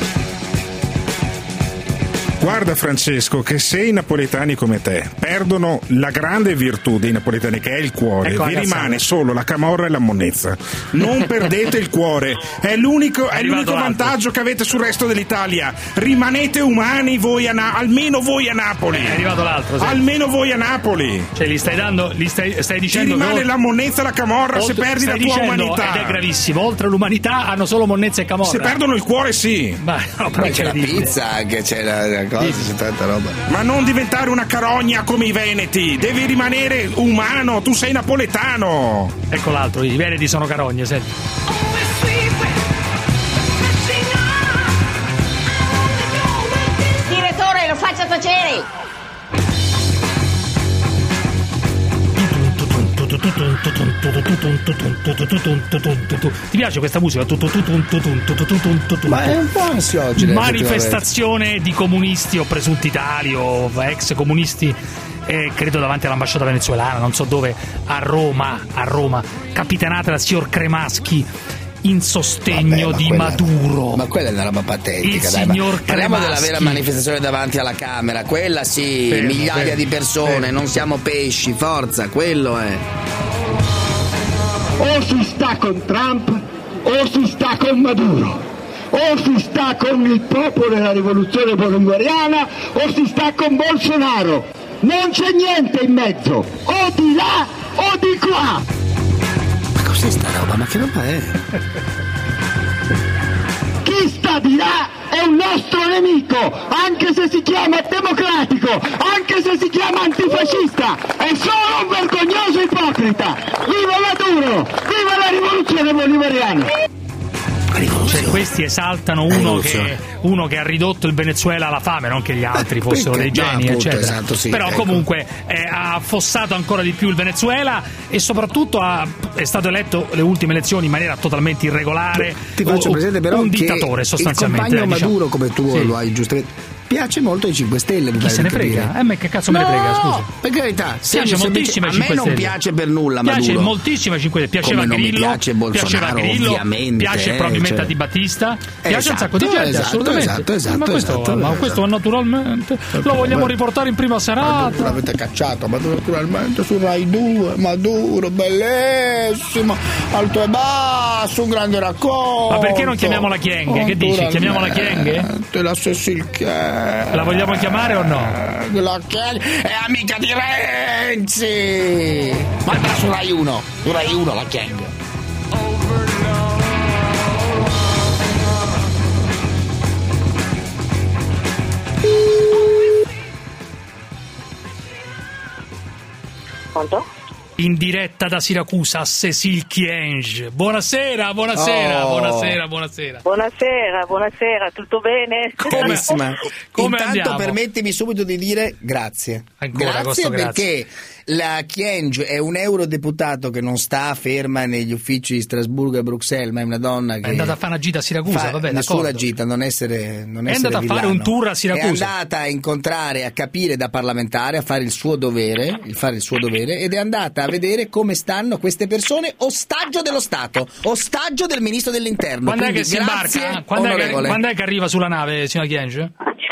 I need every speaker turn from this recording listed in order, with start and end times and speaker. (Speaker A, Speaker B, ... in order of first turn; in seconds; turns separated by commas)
Speaker A: 2.4-19.3, Speaker B: 8.2-9.0, Speaker B: 13.3-14.2, Speaker B: 18.9-20.0, Speaker A: 19.8-21.3, Speaker B: 21.4-23.5, Speaker A: 22.9-26.2, Speaker B: 24.5-28.8, Speaker A: 28.4-29.8, Speaker B: 29.8-31.1, Speaker C: 30.3-33.4, Speaker B: 32.4-32.7, Speaker A: 33.5-39.1, Speaker B: 39.3-41.1, Speaker B: 52.2-59.4, Speaker C: 59.1-61.0, Speaker B: 60.2-71.3, Speaker B: 71.8-74.0, Speaker C: 72.5-82.8, Speaker B: 75.0-76.8, Speaker B: 79.1-80.5, Speaker D: 84.8-88.4, Speaker D: 88.9-98.5, Speaker C: 99.8-101.4, Speaker D: 103.9-116.7, Speaker C: 117.7-118.4, Speaker B: 118.1-135.2, Speaker C: 119.3-119.9, Speaker C: 122.5-125.0, Speaker C: 132.2-138.9, Speaker B: 135.7-135.9, Speaker B: 138.2-140.3, Speaker C: 139.5-143.7, Speaker B: 141.1-142.6, Speaker B: 143.2-155.0, Speaker C: 144.6-147.9, Speaker C: 148.8-151.8, Speaker C: 152.9-153.5, Speaker C: 154.4-174.9, Speaker B: 162.5-165.3, Speaker B: 167.1-168.4, Speaker E: 186.8-187.1, Speaker B: 187.6-193.2, Speaker C: 191.6-192.6, Speaker E: 193.2-196.2, Speaker B: 195.6-196.1, Speaker C: 195.7-207.6, Speaker B: 196.8-197.6, Speaker B: 199.6-200.7, Speaker B: 207.2-209.2, Speaker C: 208.3-224.4, Speaker B: 210.5-212.1, Speaker B: 222.5-226.1